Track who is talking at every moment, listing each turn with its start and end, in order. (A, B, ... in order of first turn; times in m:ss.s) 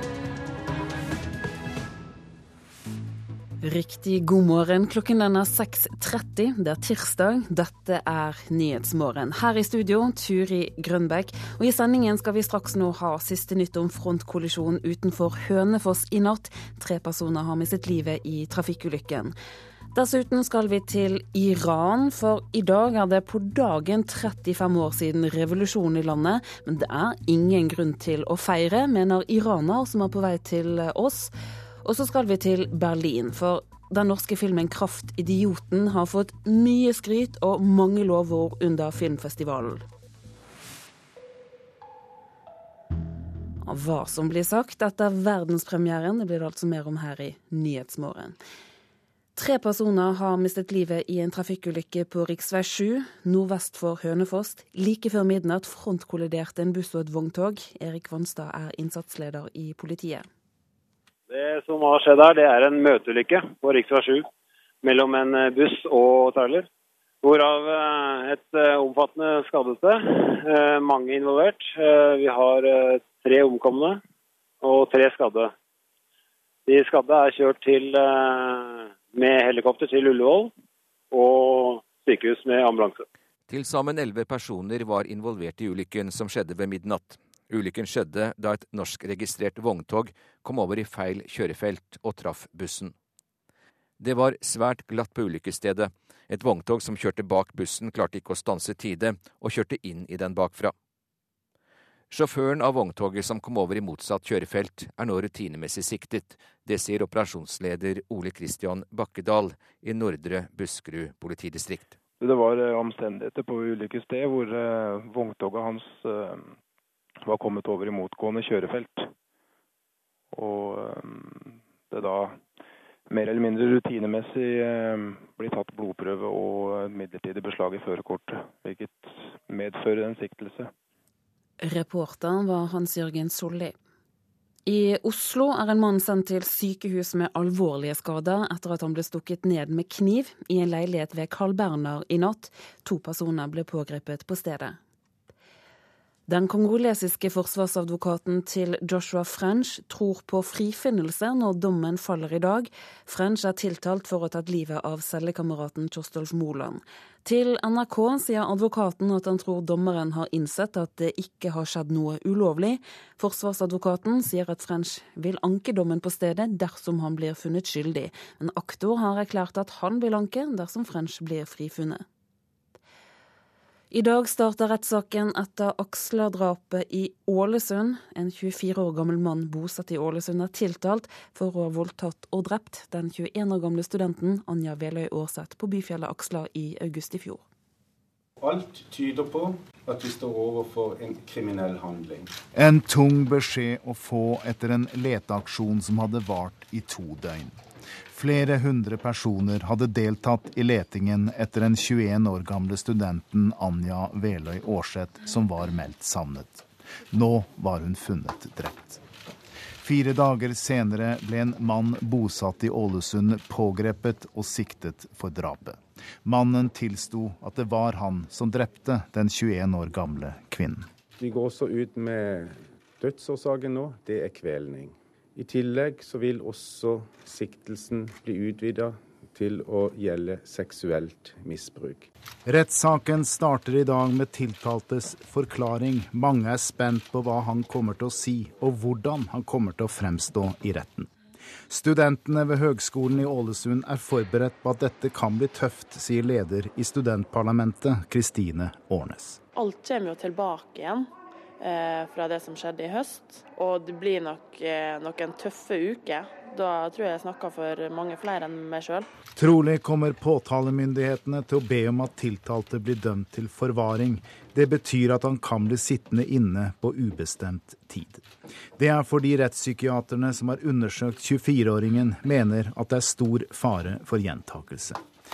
0:03.6-0:19.3 A
0:19.9-0:31.3 A
0:31.8-0:39.8 A
0:43.6-0:48.4 A
0:49.4-1:00.3 A
1:01.3-1:04.3 B
1:04.8-1:06.7 B
1:07.2-1:14.0 B
1:14.6-1:15.5 B
1:16.7-1:20.5 B
1:21.1-1:23.0 B
1:23.5-1:32.9 C
1:34.0-1:40.7 C
1:42.1-1:51.9 C
1:52.2-1:56.6 D
1:57.2-1:59.1 D
2:00.3-2:02.4 D
2:03.1-2:10.7 D
2:11.6-2:13.7 A
2:14.6-2:24.8 A
2:26.3-2:52.0 A
2:53.9-3:07.4 A
3:08.4-3:12.3 E
3:12.5-3:17.6 F
3:18.1-3:29.0 F
3:29.8-3:40.9 F
3:41.2-3:52.1 E
3:52.4-4:01.1 F
4:01.7-4:09.4 F
4:10.0-4:10.7 G
4:11.6-4:18.0 G
4:19.4-4:35.0 F